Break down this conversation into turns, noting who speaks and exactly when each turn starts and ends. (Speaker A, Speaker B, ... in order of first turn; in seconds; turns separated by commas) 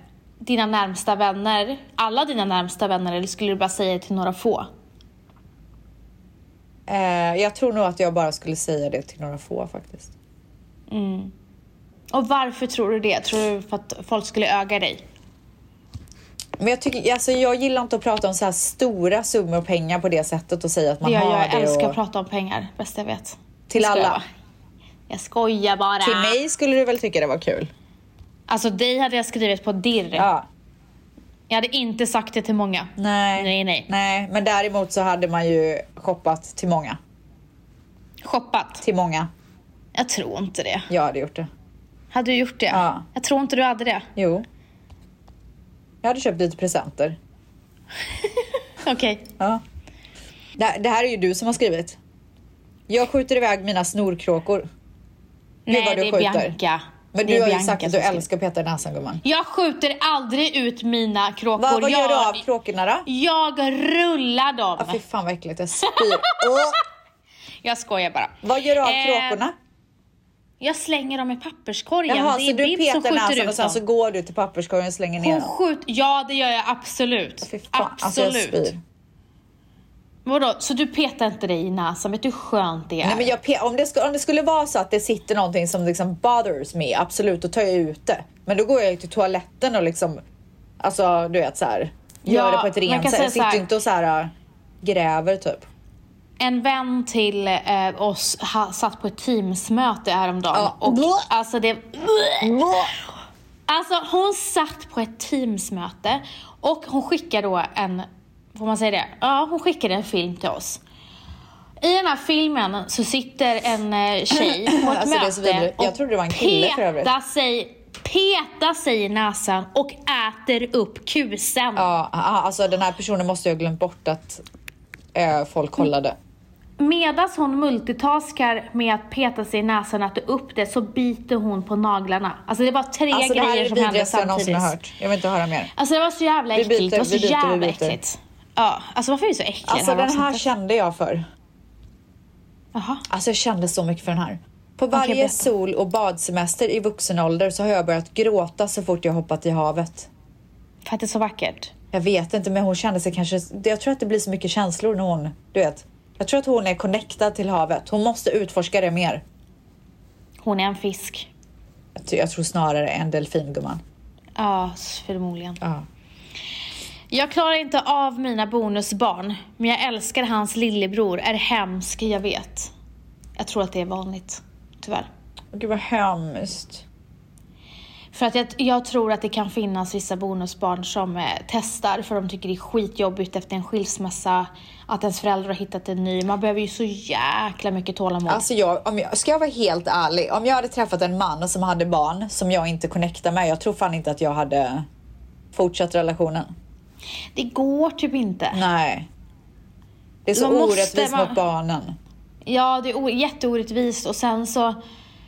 Speaker A: 0.4-4.7, Speaker B: 6.9-10.1, Speaker A: 10.9-11.3, Speaker A: 12.1-15.0, Speaker B: 16.6-22.0, Speaker A: 21.0-24.2, Speaker B: 23.7-24.2, Speaker A: 25.1-26.4, Speaker B: 26.0-27.7, Speaker A: 28.5-30.3, Speaker B: 30.1-30.5, Speaker A: 31.5-33.9, Speaker B: 33.0-37.0, Speaker A: 38.2-38.8, Speaker B: 38.8-39.3, Speaker A: 39.9-40.9, Speaker B: 40.9-41.5, Speaker A: 42.1-44.1, Speaker B: 42.7-43.0, Speaker B: 44.1-44.5, Speaker B: 46.0-47.2, Speaker A: 48.2-49.3, Speaker B: 50.6-52.0, Speaker B: 52.9-54.6, Speaker A: 55.6-58.2, Speaker B: 55.7-56.5, Speaker B: 57.1-59.2, Speaker A: 59.2-62.4, Speaker B: 61.6-63.1, Speaker A: 63.1-65.0, Speaker B: 64.8-66.8, Speaker A: 65.8-66.8, Speaker A: 67.6-69.4, Speaker B: 68.4-69.5, Speaker A: 70.6-73.8, Speaker B: 72.1-75.5, Speaker A: 75.2-78.7, Speaker B: 77.4-78.8, Speaker A: 80.2-83.3, Speaker B: 83.0-90.2, Speaker B: 90.8-95.7, Speaker A: 92.2-93.7, Speaker A: 96.4-102.8, Speaker B: 100.5-101.3, Speaker B: 102.4-102.9, Speaker A: 103.7-110.8, Speaker A: 111.8-121.9, Speaker B: 114.3-117.1, Speaker B: 121.8-124.4, Speaker B: 125.1-126.2, Speaker A: 126.8-134.7, Speaker B: 133.1-135.7, Speaker A: 135.7-140.4, Speaker B: 136.6-138.0, Speaker B: 139.7-141.2, Speaker A: 142.7-143.1, Speaker B: 143.1-150.1, Speaker A: 144.9-145.5, Speaker A: 150.8-151.7, Speaker B: 151.9-159.2, Speaker A: 160.4-161.3, Speaker B: 161.9-163.8, Speaker A: 164.4-165.6, Speaker A: 167.1-172.7, Speaker A: 173.4-175.1, Speaker B: 175.5-176.8, Speaker A: 178.1-188.4, Speaker B: 188.3-194.9, Speaker B: 195.5-196.5, Speaker A: 197.3-198.6, Speaker B: 198.5-199.1, Speaker B: 200.2-202.0, Speaker A: 200.3-201.4, Speaker A: 202.4-204.8